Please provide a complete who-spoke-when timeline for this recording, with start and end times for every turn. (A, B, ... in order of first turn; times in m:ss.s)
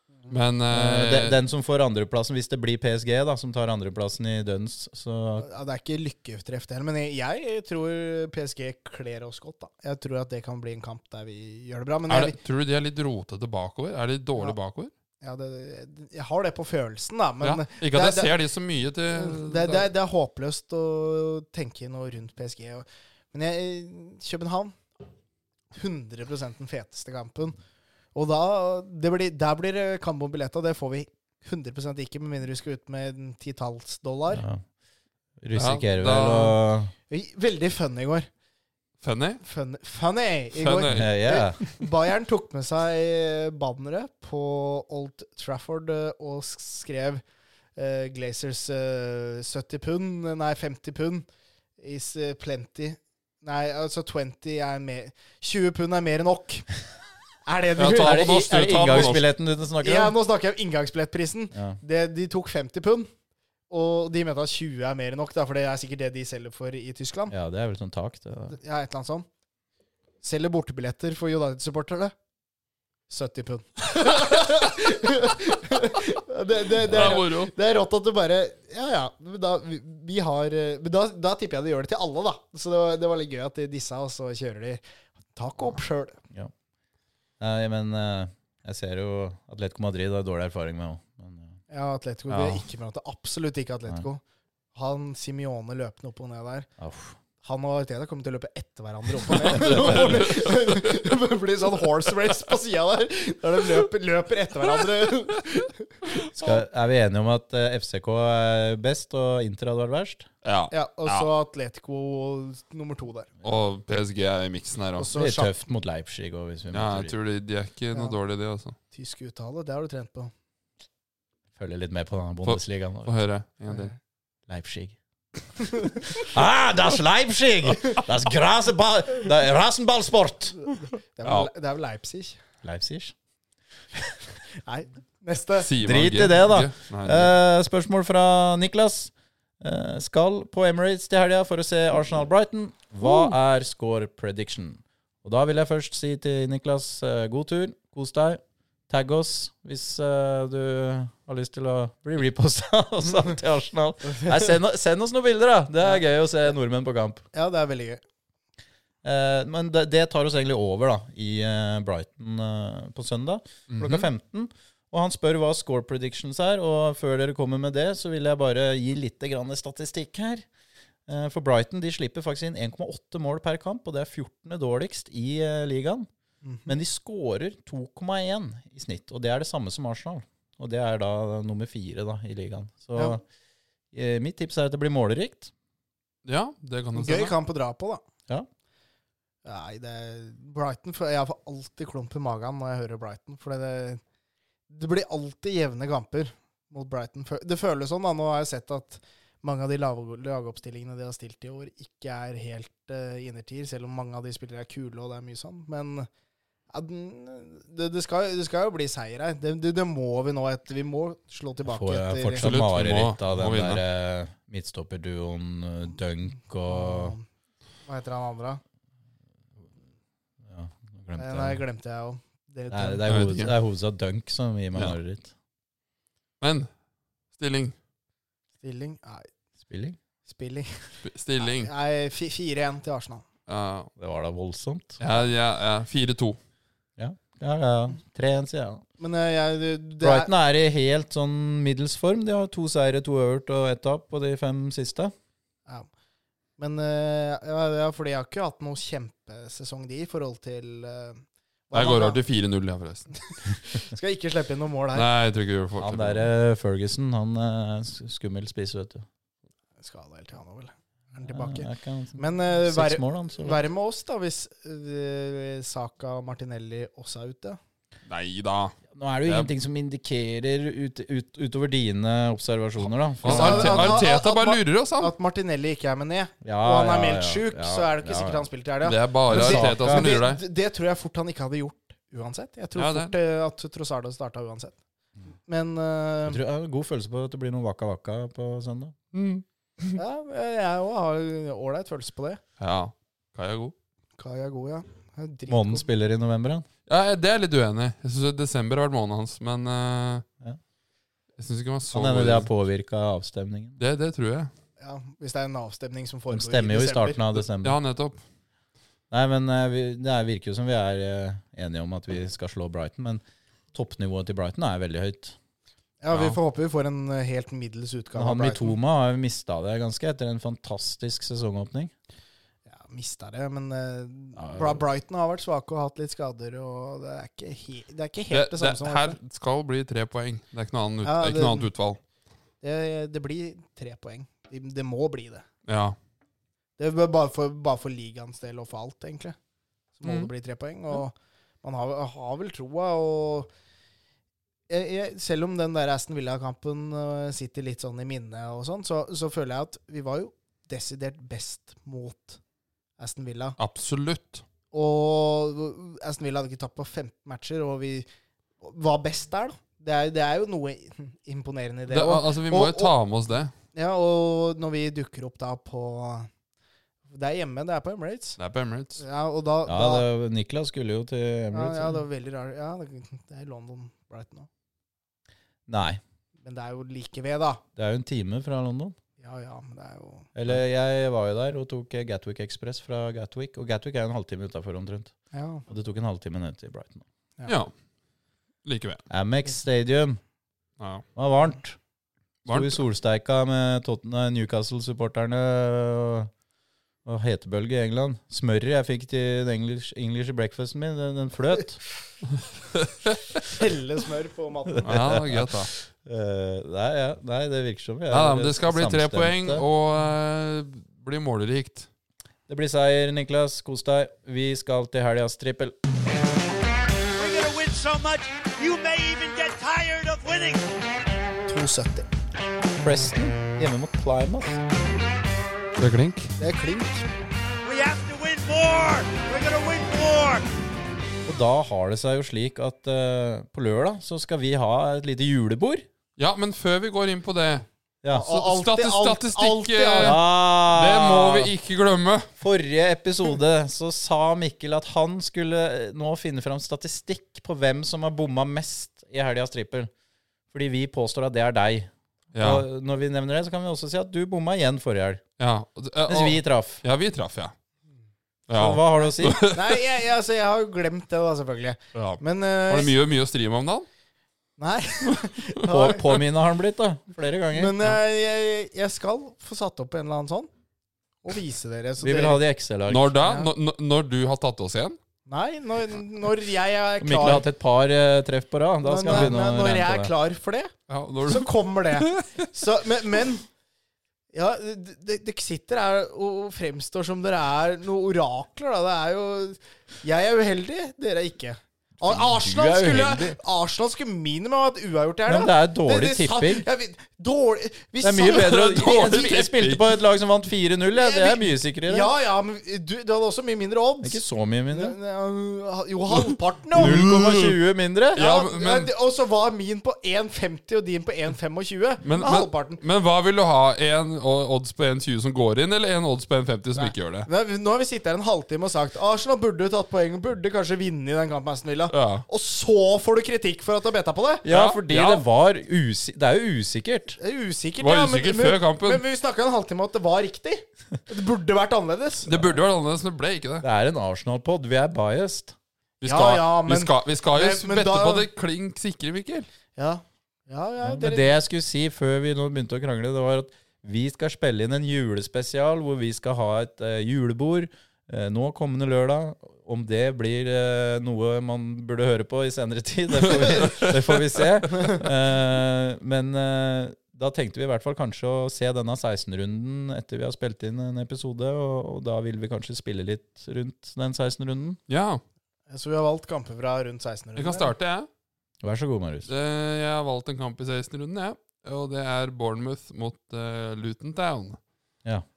0:00.3-0:01.4 A
0:00.7-0:05.5 B
0:05.4-0:12.4 C
0:12.1-0:14.9 A
0:15.2-0:18.3 C
0:17.4-0:19.9 A
0:19.1-0:24.8 C
0:25.7-0:27.6 C
0:28.1-0:34.4 C
0:34.3-0:34.6 B
0:35.4-0:36.9 B
0:35.5-0:36.6 A
0:37.1-0:38.3 C
0:39.0-0:39.4 A
0:39.4-0:47.2 C
0:40.6-0:41.1 A
0:40.9-0:41.6 B
0:47.8-0:51.3 C
0:51.8-0:56.7 C
0:57.5-0:59.2 C
0:57.8-0:59.2 A
0:57.9-1:00.1 B
0:59.8-1:03.1 C
1:01.5-1:01.8 B
1:03.7-1:07.3 C
1:07.3-1:08.6 B
1:08.5-1:09.3 C
1:10.2-1:12.1 C
1:13.1-1:24.8 C
1:16.8-1:17.5 A
1:25.3-1:26.2 C
1:27.4-1:31.6 B
1:31.7-1:34.2 C
1:32.3-1:32.6 A
1:34.8-1:36.7 C
1:36.8-1:37.2 B
1:37.4-1:46.5 C
1:39.4-1:40.6 A
1:39.6-1:40.1 B
1:46.3-1:50.3 B
1:50.4-1:51.3 A
1:50.7-1:53.3 C
1:53.4-1:55.1 A
1:55.0-1:55.6 C
1:55.2-1:57.1 B
1:56.7-1:58.8 A
1:58.9-2:00.3 C
2:01.6-2:03.1 B
2:02.4-2:03.9 A
2:04.5-2:05.0 B
2:06.2-2:10.6 B
2:11.2-2:12.4 C
2:11.2-2:11.5 A
2:12.6-2:13.1 B
2:14.6-2:15.7 C
2:15.6-2:17.3 A
2:15.8-2:37.2 B
2:34.1-2:34.5 C
2:37.3-2:38.0 C
2:39.0-2:50.5 B
2:43.7-2:44.1 A
2:51.1-2:56.1 B
2:56.4-2:56.7 C
2:56.7-3:03.2 B
3:03.9-3:05.5 B
3:06.2-3:07.4 A
3:07.0-3:08.0 C
3:09.4-3:14.0 C
3:14.7-3:26.1 C
3:26.7-3:32.4 C
3:31.7-3:37.2 B
3:32.4-3:33.8 A
3:36.7-3:37.2 C
3:37.9-3:38.6 C
3:40.5-3:41.6 B
3:41.2-3:43.2 C
3:42.7-3:45.3 B
3:43.1-3:43.5 A
3:46.4-3:46.7 A
3:47.4-3:47.8 A
3:48.6-3:49.3 C
3:49.6-3:50.0 B
3:50.2-3:53.3 C
3:51.0-3:51.7 A
3:53.5-3:53.9 A
3:54.0-3:55.0 B
3:55.0-3:56.4 A
3:57.0-3:58.8 B
3:59.0-4:00.3 C
4:00.0-4:05.1 B
4:06.6-4:12.2 C
4:11.7-4:13.2 A
4:13.3-4:15.1 C
4:14.9-4:16.3 A
4:15.8-4:19.1 B
4:19.8-4:27.6 C
4:21.2-4:23.6 B
4:28.1-4:29.5 A
4:28.9-4:34.0 B
4:33.2-4:35.1 A
4:33.2-4:44.8 C
4:36.4-4:38.5 B
4:38.8-4:40.4 A
4:39.3-4:40.1 B
4:42.8-4:43.2 A
4:45.5-4:46.4 C
4:46.3-4:49.0 B
4:49.1-4:50.0 A
4:50.0-4:52.4 C
4:52.6-4:53.8 A
4:54.2-4:55.9 C
4:55.5-4:56.7 B
4:56.9-5:00.2 A
5:01.4-5:02.5 A
5:01.9-5:03.8 B
5:03.8-5:04.5 A
5:04.8-5:07.2 C
5:06.3-5:07.8 B
5:07.6-5:08.2 A
5:09.1-5:13.2 B
5:13.7-5:15.4 B
5:16.0-5:18.8 C
5:16.1-5:16.4 A
5:18.2-5:21.9 B
5:22.7-5:29.2 C
5:24.4-5:24.8 B
5:28.3-5:32.0 A
5:31.0-5:31.7 C
5:32.6-5:35.5 C
5:35.7-5:36.0 A
5:36.8-5:39.4 C
5:40.0-5:43.5 C
5:40.1-5:40.3 A
5:44.7-5:52.4 C
5:53.0-5:53.6 C
5:53.6-5:54.4 A
5:54.7-5:58.1 C
5:58.6-6:02.9 C
6:01.9-6:03.5 A
6:03.7-6:06.3 C
6:07.1-6:08.4 C
6:08.4-6:09.0 A
6:09.0-6:10.1 C
6:09.6-6:12.0 B
6:11.5-6:14.5 C
6:15.7-6:16.0 B
6:16.4-6:17.6 C
6:17.8-6:19.0 B
6:19.2-6:20.3 C
6:20.4-6:25.1 B
6:25.3-6:25.7 C
6:25.7-6:27.0 B
6:27.5-6:27.7 A
6:28.6-6:29.0 A
6:29.1-6:30.2 B
6:30.8-6:31.0 A
6:31.2-6:31.8 B
6:32.4-6:36.3 B
6:32.5-6:32.8 A
6:37.0-6:41.8 B
6:42.8-6:43.2 A
6:43.4-6:45.1 C
6:44.8-6:45.7 A
6:44.8-6:49.6 B
6:48.1-6:51.9 A
6:52.5-6:55.8 B
6:57.2-7:00.7 D
7:01.5-7:02.1 C
7:02.8-7:04.6 B
7:05.8-7:06.3 A
7:06.4-7:07.1 C
7:07.6-7:10.5 D
7:11.2-7:15.9 B
7:16.2-7:17.6 A
7:18.1-7:20.2 C
7:18.3-7:22.3 A
7:20.0-7:21.5 B
7:22.4-7:29.9 B
7:30.5-7:35.2 B
7:32.3-7:32.6 A
7:35.4-7:37.6 A
7:36.1-7:36.8 B
7:38.5-7:39.8 A
7:38.5-7:39.4 B
7:39.4-7:43.0 C
7:42.0-7:43.9 A
7:44.6-7:46.2 C
7:45.6-7:47.9 B
7:47.5-7:50.5 C
7:51.2-7:52.4 C
7:52.0-7:53.2 B
7:52.9-7:55.0 A
7:53.2-7:53.5 C
7:55.3-7:57.4 C
7:57.0-8:00.1 B
7:58.8-8:00.7 C
8:00.9-8:02.4 A
8:01.3-8:03.4 C
8:04.3-8:19.4 C
8:12.0-8:13.4 B
8:15.3-8:16.6 B
8:18.0-8:22.1 B
8:18.2-8:20.0 A
8:20.9-8:27.1 C
8:24.0-8:25.0 B
8:26.8-8:27.6 A
8:26.8-8:28.2 B
8:28.2-8:32.8 C
8:28.2-8:28.9 A
8:32.0-8:37.3 A
8:36.7-8:44.4 C
8:41.9-8:42.2 A
8:44.4-8:47.2 B
8:44.5-8:45.2 A
8:47.2-8:52.4 C
8:47.8-8:49.0 A
8:52.3-8:53.6 A
8:53.6-8:55.6 B
8:56.0-8:59.5 A
8:56.0-8:58.3 C
8:59.8-9:01.3 C
9:00.8-9:24.8 B
9:13.2-9:14.1 A
9:24.9-9:25.2 A
9:25.7-9:27.7 C
9:27.4-9:28.1 A
9:28.6-9:29.3 B
9:29.3-9:34.6 A